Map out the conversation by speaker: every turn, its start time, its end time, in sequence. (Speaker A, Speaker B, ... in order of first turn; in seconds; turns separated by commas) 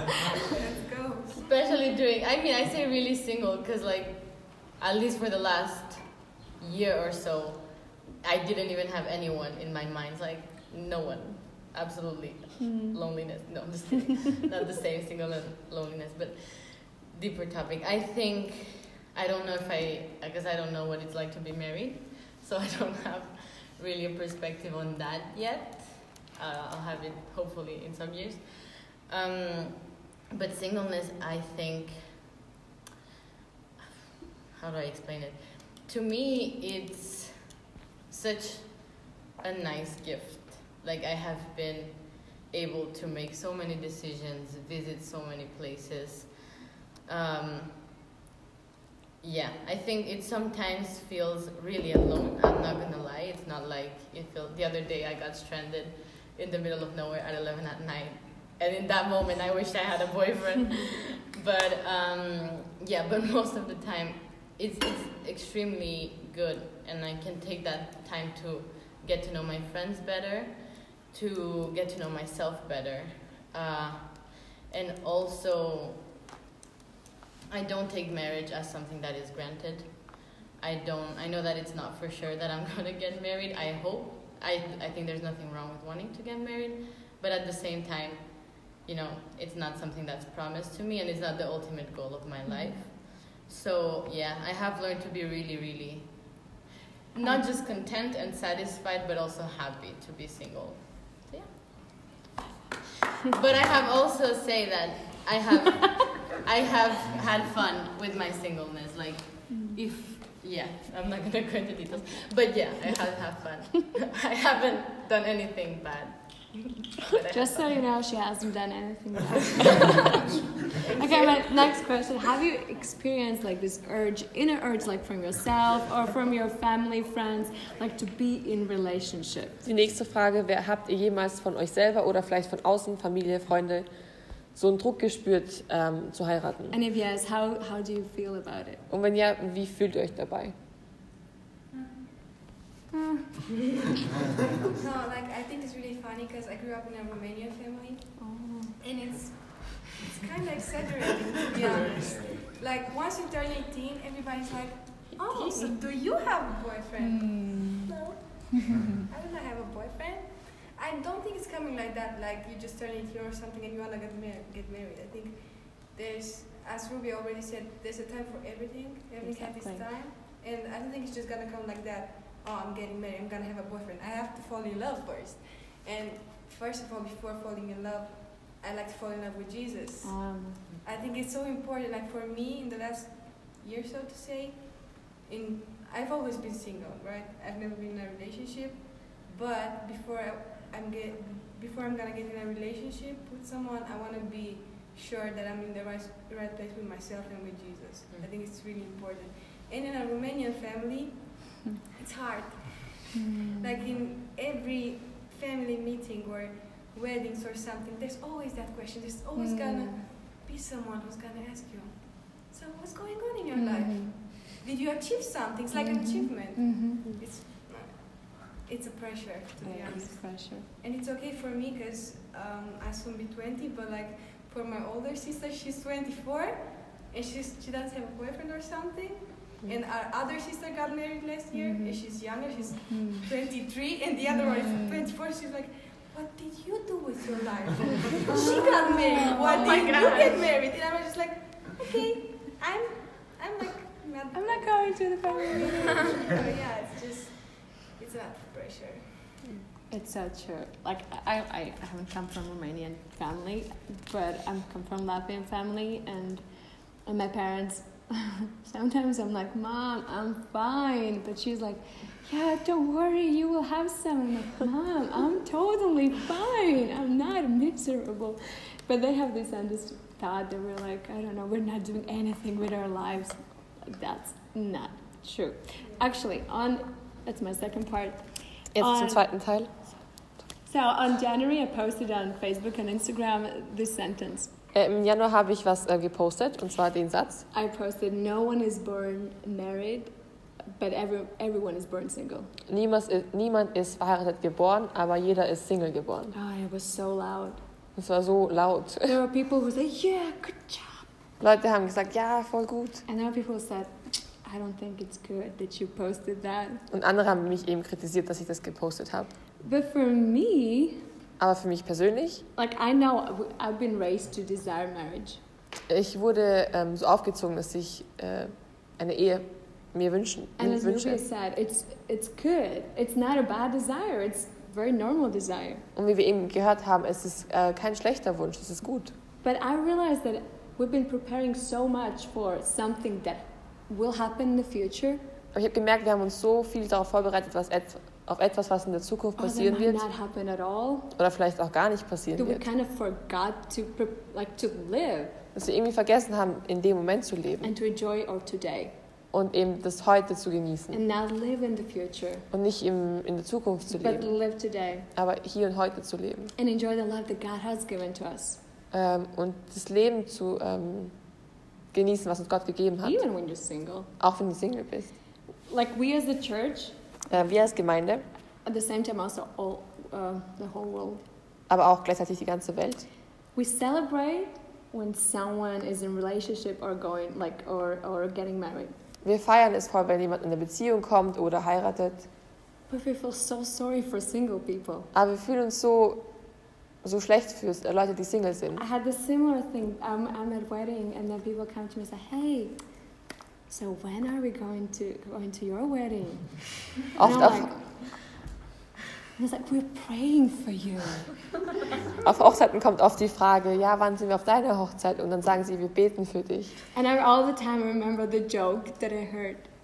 Speaker A: 0.5-1.4, Speaker B: 1.4-32.3, Speaker C: 12.6-13.0, Speaker B: 34.5-37.6, Speaker B: 38.1-47.9, Speaker B: 49.2-76.1, Speaker B: 77.5-96.6, Speaker B: 97.1-102.2, Speaker B: 103.2-117.7, Speaker C: 117.3-129.6, Speaker B: 120.7-121.4, Speaker D: 129.6-133.9, Speaker D: 134.5-136.8, Speaker C: 136.7-138.8, Speaker D: 138.9-140.5, Speaker C: 142.9-143.5, Speaker A: 144.8-148.1, Speaker C: 148.2-148.8, Speaker A: 148.8-158.6, Speaker C: 155.3-155.7, Speaker C: 157.0-157.9, Speaker C: 158.6-158.9, Speaker A: 159.1-180.3, Speaker C: 169.2-169.9, Speaker C: 180.0-180.6, Speaker A: 180.8-249.2, Speaker C: 203.1-203.8, Speaker C: 209.4-210.1, Speaker C: 213.5-214.2, Speaker C: 215.7-217.1, Speaker C: 219.6-220.7, Speaker C: 231.6-232.0, Speaker C: 232.9-233.3, Speaker C: 234.6-235.0, Speaker C: 238.3-239.9, Speaker B: 239.3-240.4, Speaker C: 244.3-246.3, Speaker C: 249.9-256.4, Speaker C: 257.1-278.2, Speaker D: 278.8-279.8, Speaker C: 278.8-279.2, Speaker C: 280.7-284.5, Speaker D: 284.7-287.5, Speaker C: 287.5-290.1, Speaker C: 290.7-292.5, Speaker D: 292.7-296.3, Speaker C: 296.3-297.6, Speaker D: 298.0-299.2, Speaker C: 299.1-301.1, Speaker D: 301.4-303.0, Speaker C: 303.1-306.9, Speaker D: 306.9-309.3, Speaker C: 309.6-311.0, Speaker D: 311.4-312.4, Speaker C: 312.6-315.4, Speaker D: 315.9-321.2, Speaker C: 320.6-325.9, Speaker D: 325.9-329.1, Speaker C: 329.4-335.2, Speaker D: 335.5-340.1, Speaker C: 339.4-341.1, Speaker D: 341.2-342.6, Speaker C: 342.4-345.4, Speaker D: 345.6-347.7, Speaker C: 347.6-348.9, Speaker D: 349.3-351.0, Speaker C: 350.9-352.5, Speaker D: 352.5-354.3, Speaker C: 353.9-355.1, Speaker D: 355.1-356.5, Speaker C: 356.6-358.6, Speaker D: 358.9-361.1, Speaker D: 361.9-363.2, Speaker C: 363.0-364.1, Speaker D: 364.2-365.1, Speaker C: 365.7-367.0, Speaker D: 367.3-368.2, Speaker C: 368.6-371.2, Speaker D: 371.7-373.1, Speaker C: 373.6-378.9, Speaker D: 379.2-382.3, Speaker C: 382.9-385.1, Speaker D: 385.1-386.3, Speaker D: 387.0-388.8, Speaker C: 388.8-392.8, Speaker C: 393.7-397.8, Speaker D: 397.2-397.7, Speaker C: 399.4-401.3, Speaker D: 402.2-406.8, Speaker C: 406.9-409.7